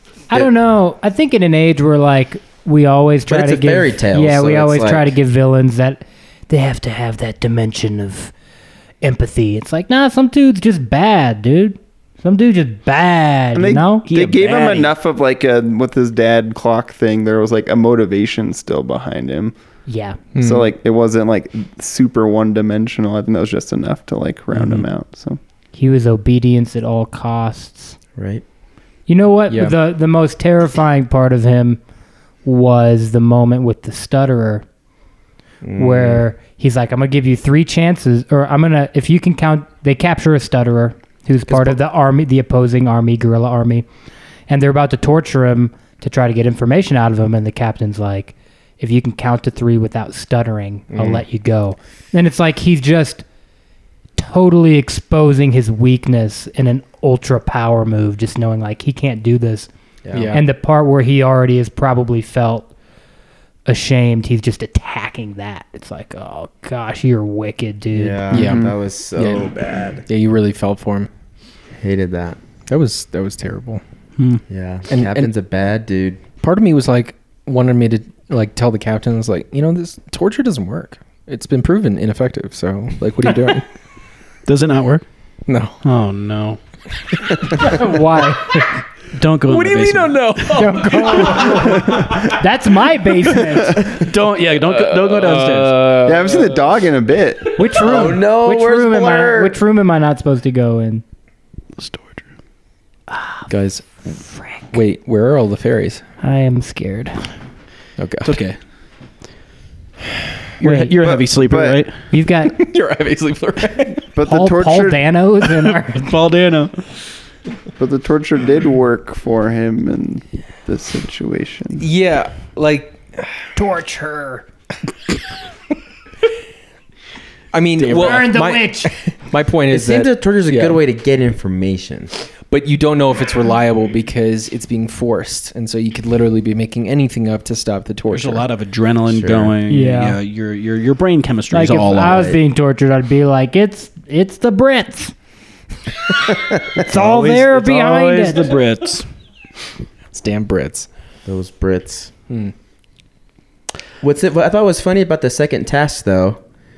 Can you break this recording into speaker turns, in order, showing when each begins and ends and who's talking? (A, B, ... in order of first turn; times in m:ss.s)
0:00.3-0:08.3 A
0:03.3-0:05.1 B
0:09.0-0:14.0 A
0:13.5-0:19.5 C
0:14.1-0:14.9 D
0:19.9-0:20.2 A
0:20.3-0:20.7 E
0:20.4-0:25.4 C
0:24.5-0:24.8 E
0:25.7-0:28.0 A
0:28.2-0:28.4 B
0:29.1-0:31.8 A
0:29.5-0:29.7 E
0:32.4-0:34.6 A
0:35.6-0:36.2 B
0:35.7-0:43.8 A
0:44.5-0:53.2 A
0:50.9-0:51.2 E
0:54.2-0:59.7 A
1:00.0-1:00.3 B
1:00.1-1:00.4 E
1:00.3-1:02.7 A
1:03.6-1:08.2 A
1:07.9-1:10.0 B
1:08.3-1:09.5 E
1:08.4-1:08.7 C
1:10.0-1:11.1 E
1:11.8-1:12.4 B
1:12.7-1:13.8 E
1:14.5-1:16.2 B
1:14.9-1:15.3 E
1:16.4-1:23.6 E
1:24.4-1:25.0 D
1:25.5-1:25.8 E
1:25.8-1:26.6 D
1:27.5-1:28.8 A
1:29.1-1:30.7 D
1:29.5-1:32.4 E
1:30.5-1:33.8 A
1:33.8-1:36.0 D
1:34.6-1:36.7 E
1:36.0-1:37.7 C
1:37.5-1:41.0 A
1:37.8-1:39.6 B
1:41.8-1:42.3 D
1:43.5-1:44.0 E
1:44.2-1:44.6 A
1:44.7-1:46.0 E
1:46.2-1:47.3 A
1:48.0-1:48.4 E
1:48.2-1:48.6 D
1:50.6-1:52.0 D
1:50.6-1:50.9 A
1:51.0-1:51.8 C
1:52.1-1:52.6 A
1:52.5-1:54.0 E
1:54.1-1:55.0 C
1:54.2-1:56.2 A
1:55.9-1:56.7 D
1:57.8-2:01.8 C
2:01.8-2:03.4 E
2:03.5-2:04.4 A
2:07.5-2:10.8 E
2:07.9-2:08.9 A
2:09.7-2:12.1 B
2:12.5-2:18.4 E
2:18.1-2:22.4 D
2:19.1-2:19.5 B
2:19.7-2:20.2 A
2:21.5-2:25.1 A
2:26.8-2:28.5 A
2:26.8-2:29.1 D
2:30.1-2:30.9 E
2:31.2-2:32.1 B
2:32.3-2:32.5 E
2:34.0-2:36.4 B